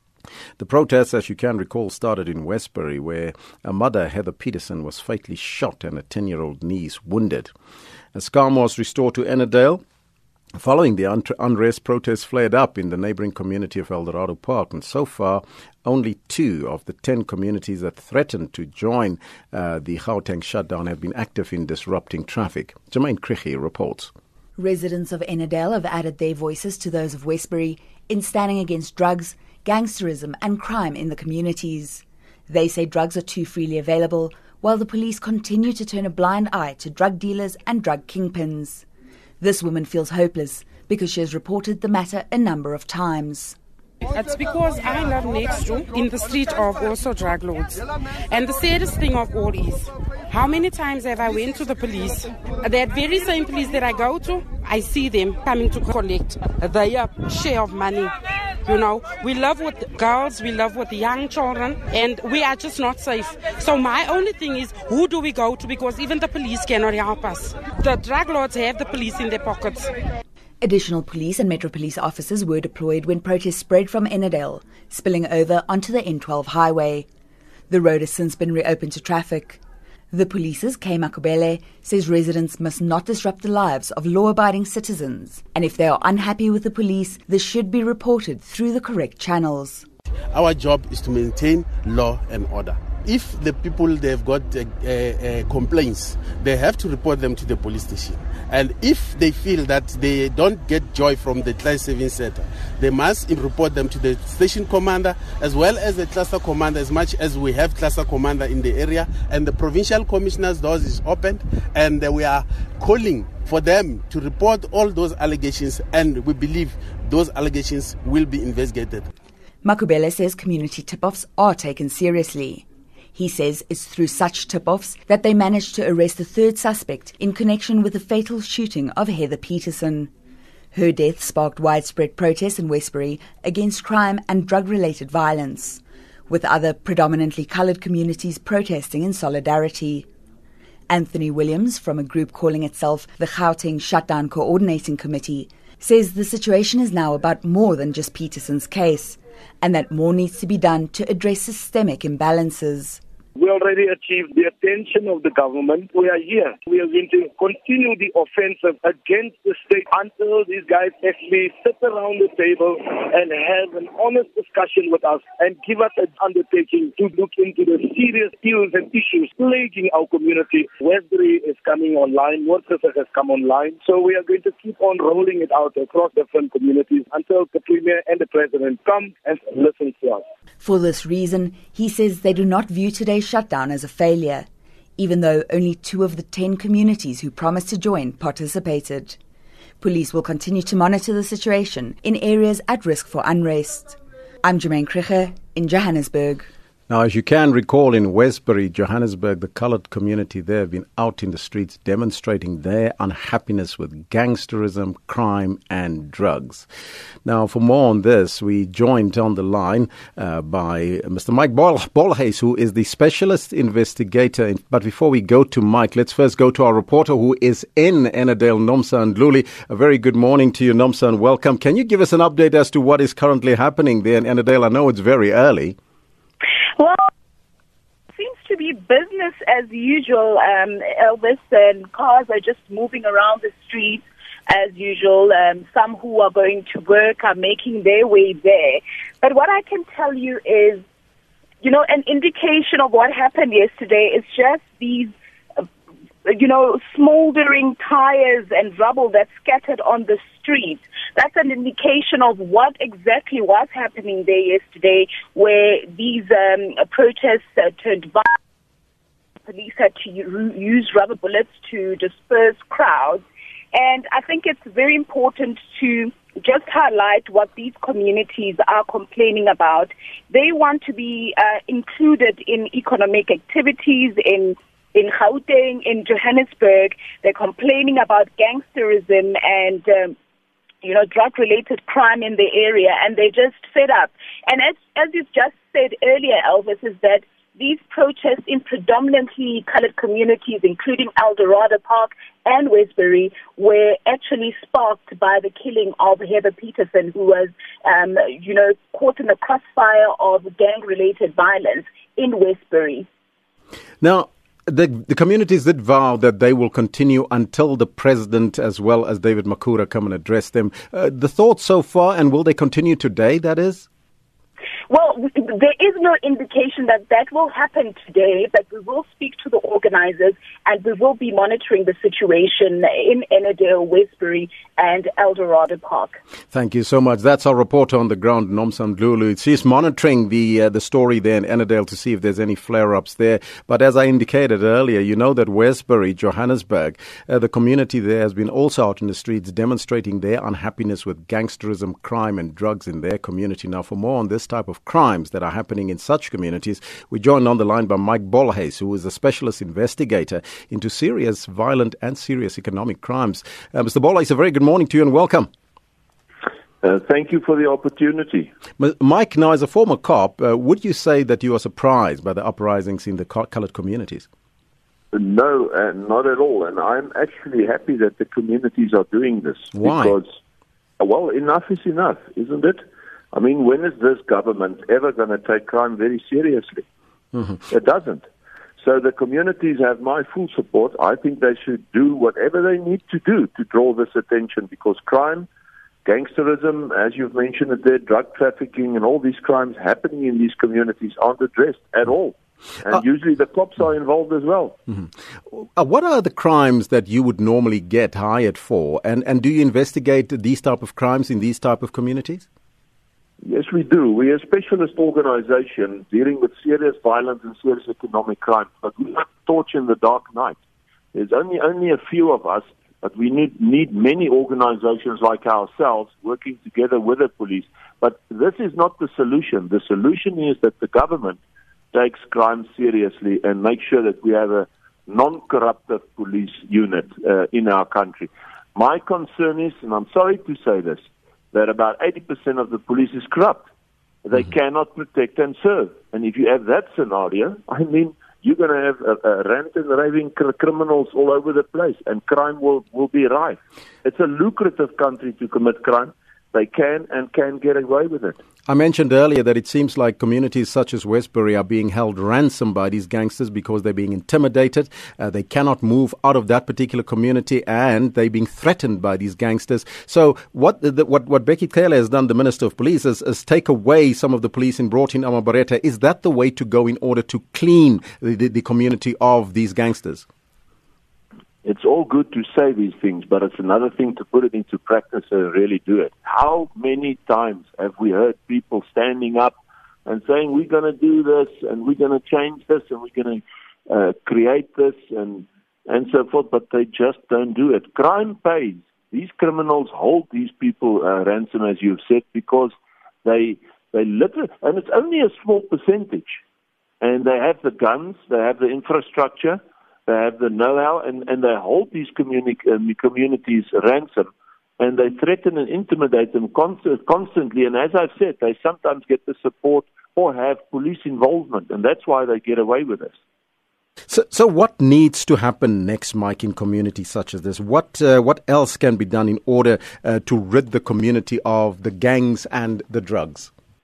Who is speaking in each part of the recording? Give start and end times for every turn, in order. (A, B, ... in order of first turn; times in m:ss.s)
0:00.6-0:07.5 A
0:08.1-0:09.8 A
0:10.6-0:24.1 A
0:24.6-0:38.8 B
0:39.4-0:43.6 B
0:44.1-0:58.1 C
0:58.6-1:09.9 C
1:10.6-1:17.1 B
1:17.7-1:19.6 B
1:20.1-1:29.8 B
1:30.3-1:59.1 D
1:59.6-2:10.1 B
2:10.7-2:20.1 B
2:20.9-2:33.0 B
2:33.4-3:00.2 E
3:00.6-3:04.5 B
3:05.0-3:09.2 B
3:09.8-3:16.5 B
3:16.9-3:26.7 A
3:27.2-3:45.8 A
3:46.8-3:47.1 F
3:48.2-4:00.8 F
4:01.6-4:05.1 F
4:06.3-4:18.4 F
4:19.4-4:40.2 F
4:40.8-5:03.1 F
5:04.0-5:13.9 A
5:14.9-5:26.2 F
5:26.5-5:55.5 A
5:56.8-5:58.5 G
5:58.8-6:04.3 A
6:05.1-6:10.3 G
6:09.7-6:10.2 A
6:11.0-6:12.8 G
6:13.3-6:16.8 G
6:17.7-6:18.3 G
6:18.8-6:25.5 G
6:26.0-6:34.8 G
6:34.9-6:42.5 A
6:43.4-6:50.6 G
6:51.1-7:01.4 G
7:01.9-7:13.6 G
7:14.2-7:28.4 G
7:28.7-7:50.3 A
7:51.6-8:16.4 G
8:17.0-8:33.2 G
8:34.1-8:43.5 A